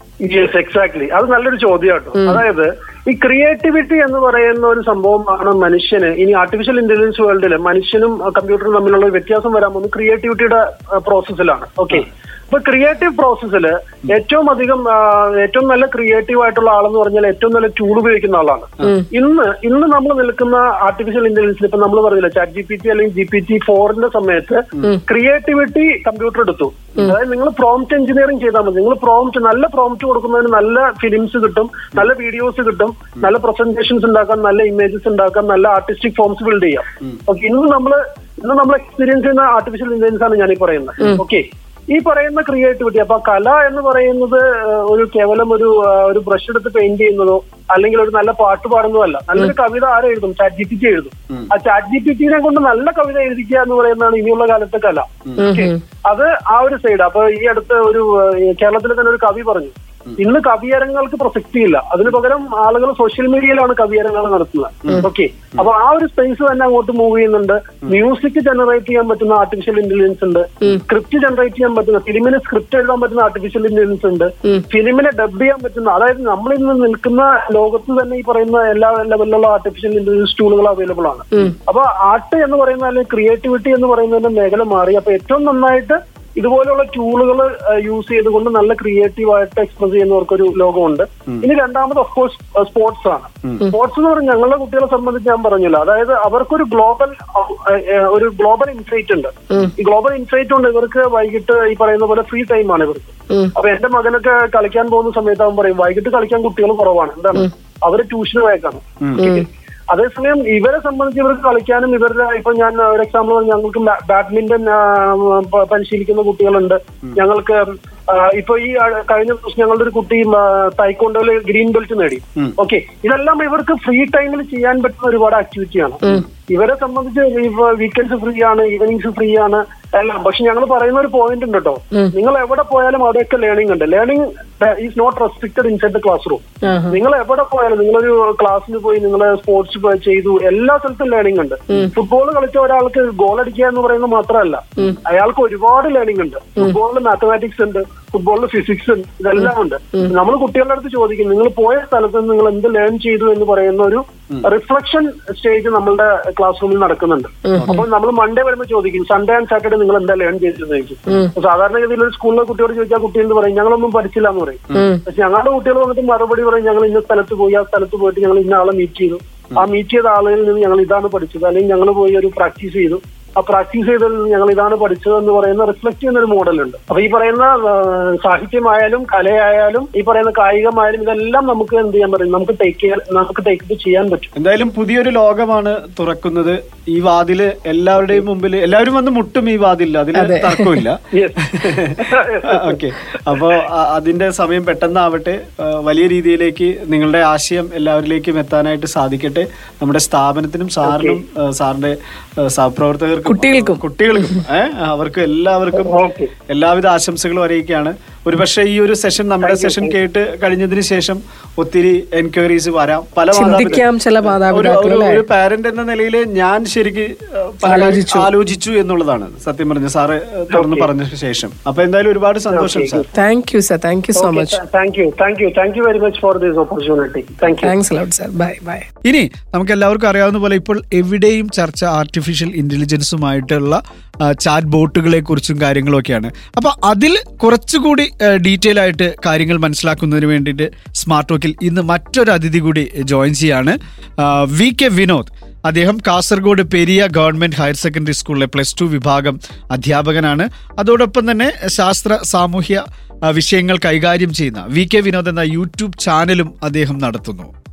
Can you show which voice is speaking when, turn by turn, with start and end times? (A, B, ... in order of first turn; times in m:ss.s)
0:00.2-3:04.3 A
0:55.2-0:55.6 B
0:55.4-0:55.8 C
1:04.8-1:05.7 B
1:49.2-1:49.4 C
2:16.6-2:17.0 C
2:37.5-2:37.8 C
2:37.5-2:37.8 B
2:44.7-2:44.9 B
2:44.7-2:45.0 C
3:04.4-3:26.0 B
3:10.1-3:10.8 C
3:11.1-3:13.4 A
3:20.8-3:21.2 A
3:23.3-3:24.4 C
3:25.7-3:26.3 A
3:26.5-3:43.0 B
3:29.4-3:30.0 A
3:33.3-3:35.2 C
3:37.6-3:38.3 C
3:40.5-3:40.9 A
3:42.5-3:43.1 A
3:43.1-3:44.6 C
3:44.1-3:47.7 A
3:47.6-3:48.9 C
3:49.0-4:17.5 B